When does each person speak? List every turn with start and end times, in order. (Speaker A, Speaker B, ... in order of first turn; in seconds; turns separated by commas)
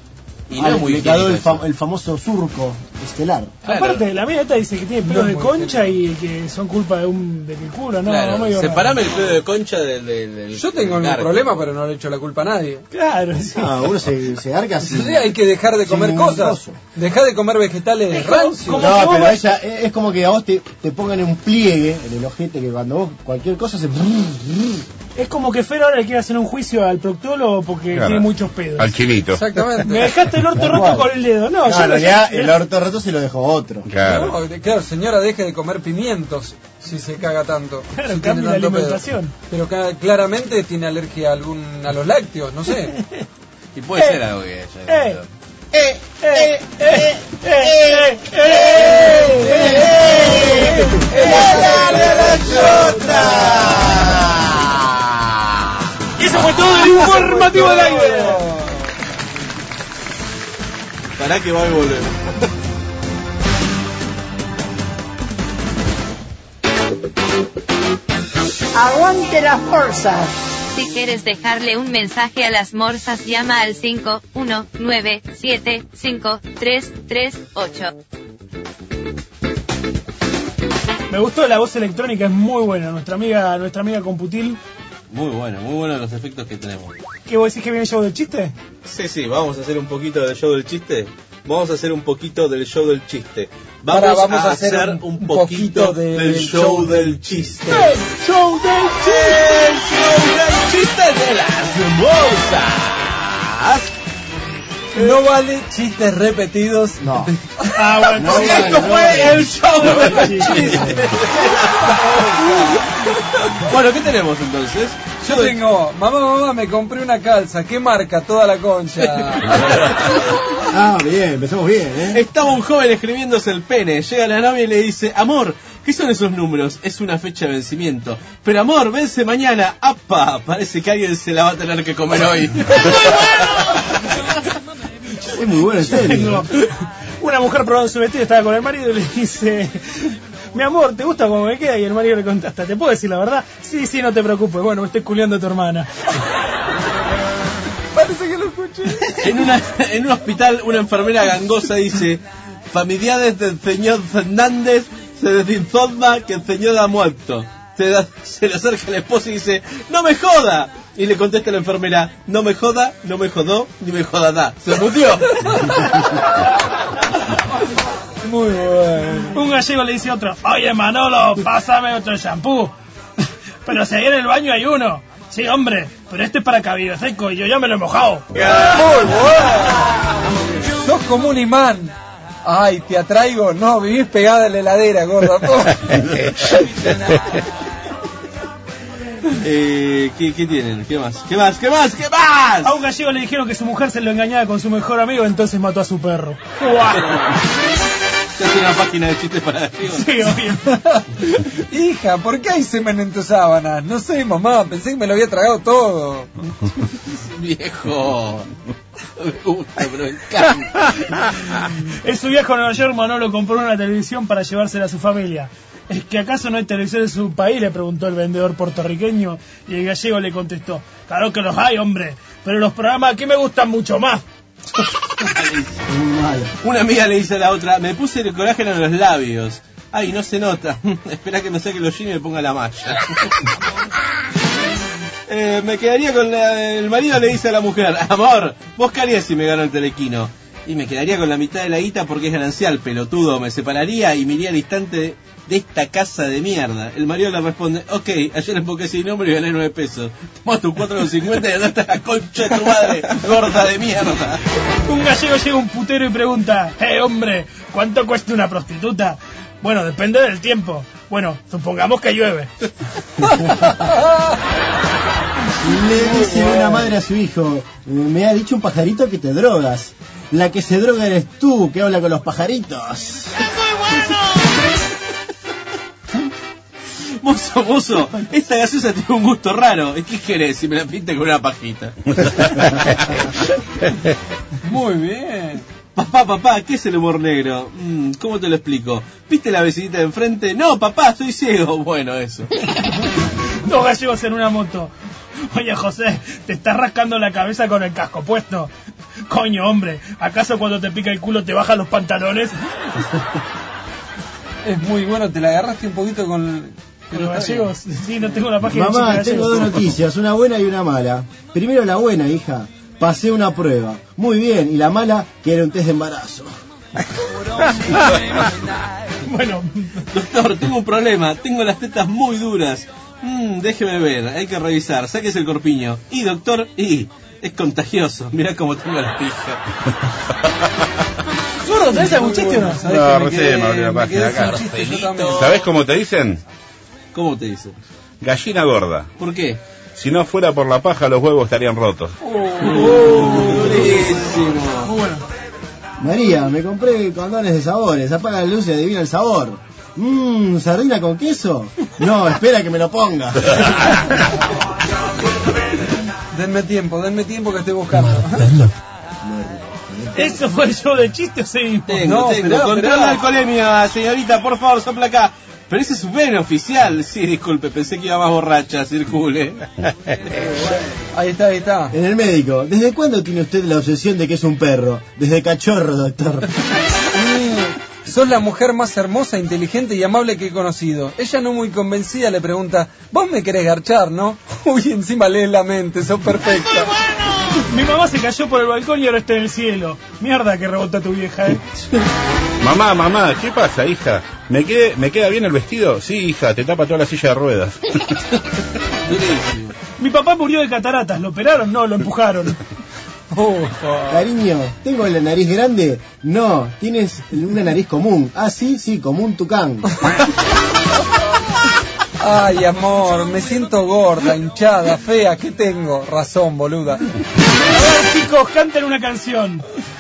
Speaker A: 0.5-1.6, Speaker B: 0.6-3.5, Speaker A: 3.7-4.0, Speaker C: 3.7-8.9, Speaker D: 5.0-6.0, Speaker A: 8.1-11.6, Speaker D: 10.5-12.8, Speaker C: 12.9-13.7, Speaker B: 13.4-16.8, Speaker D: 14.8-19.0, Speaker C: 18.1-19.4, Speaker B: 18.8-24.8, Speaker C: 25.2-28.9, Speaker E: 27.9-29.5, Speaker D: 29.3-30.2, Speaker C: 29.8-32.6, Speaker B: 30.5-31.1, Speaker B: 31.6-33.9, Speaker E: 33.9-34.4, Speaker D: 34.0-43.0, Speaker C: 38.0-39.3, Speaker A: 43.8-45.3, Speaker C: 44.9-45.2, Speaker C: 46.2-51.0, Speaker A: 49.0-54.5, Speaker B: 49.5-50.6, Speaker D: 50.9-53.5, Speaker C: 56.2-58.4, Speaker D: 56.5-58.9, Speaker A: 57.5-58.2, Speaker A: 61.2-62.2, Speaker F: 70.7-77.9, Speaker C: 81.1-84.6, Speaker A: 85.1-87.0, Speaker C: 87.3-88.5, Speaker A: 88.8-97.9, Speaker D: 93.9-98.0, Speaker C: 97.7-99.3, Speaker A: 99.0-103.9, Speaker D: 105.0-108.6, Speaker B: 107.0-107.3, Speaker C: 107.7-110.9, Speaker B: 108.2-109.5, Speaker A: 108.3-112.8, Speaker D: 110.2-110.8, Speaker D: 111.9-112.8, Speaker A: 113.5-115.6, Speaker D: 115.2-119.9, Speaker A: 119.4-119.8, Speaker B: 120.7-122.2, Speaker A: 122.1-133.5, Speaker B: 135.3-136.5, Speaker C: 135.9-136.7, Speaker C: 137.2-145.9, Speaker D: 147.9-149.4, Speaker A: 149.2-165.8, Speaker D: 165.5-166.0, Speaker D: 168.2-169.4, Speaker C: 169.3-172.7, Speaker C: 173.7-178.3, Speaker D: 178.4-179.9, Speaker D: 180.7-186.6, Speaker A: 189.3-192.8, Speaker C: 192.6-197.2, Speaker A: 197.0-197.4, Speaker A: 198.4-200.3, Speaker C: 199.9-200.8, Speaker D: 200.9-206.3, Speaker A: 207.1-208.5, Speaker A: 209.2-210.9, Speaker C: 212.0-224.2, Speaker A: 225.2-225.8, Speaker B: 225.9-226.5, Speaker A: 226.6-233.3, Speaker A: 235.3-254.4, Speaker C: 254.8-262.5, Speaker B: 265.6-273.5, Speaker D: 266.3-266.8, Speaker A: 277.2-282.9, Speaker D: 284.6-285.6, Speaker A: 285.9-292.5, Speaker C: 293.6-294.9, Speaker C: 295.5-298.7, Speaker C: 299.3-302.6, Speaker D: 304.6-307.7, Speaker C: 307.1-309.8, Speaker B: 308.7-316.5, Speaker C: 319.2-320.1, Speaker A: 320.1-329.6, Speaker C: 331.6-332.9, Speaker D: 331.7-335.6, Speaker E: 332.8-336.4, Speaker A: 334.5-335.5, Speaker A: 337.1-337.8, Speaker E: 338.2-339.1, Speaker A: 339.2-339.6, Speaker E: 340.0-342.2, Speaker D: 342.2-343.9, Speaker A: 342.6-344.9, Speaker C: 343.0-343.3, Speaker C: 344.8-345.2, Speaker B: 346.0-354.0, Speaker D: 356.3-358.6, Speaker B: 359.2-360.4, Speaker C: 360.1-362.1, Speaker A: 361.9-369.7, Speaker D: 362.0-363.2, Speaker D: 371.1-371.9, Speaker B: 371.9-376.5, Speaker D: 377.1-387.0, Speaker C: 387.5-391.7, Speaker E: 392.6-398.2, Speaker A: 399.1-399.8, Speaker C: 400.0-402.6, Speaker D: 403.3-404.2, Speaker B: 404.1-409.9, Speaker D: 412.2-417.1, Speaker C: 417.7-419.6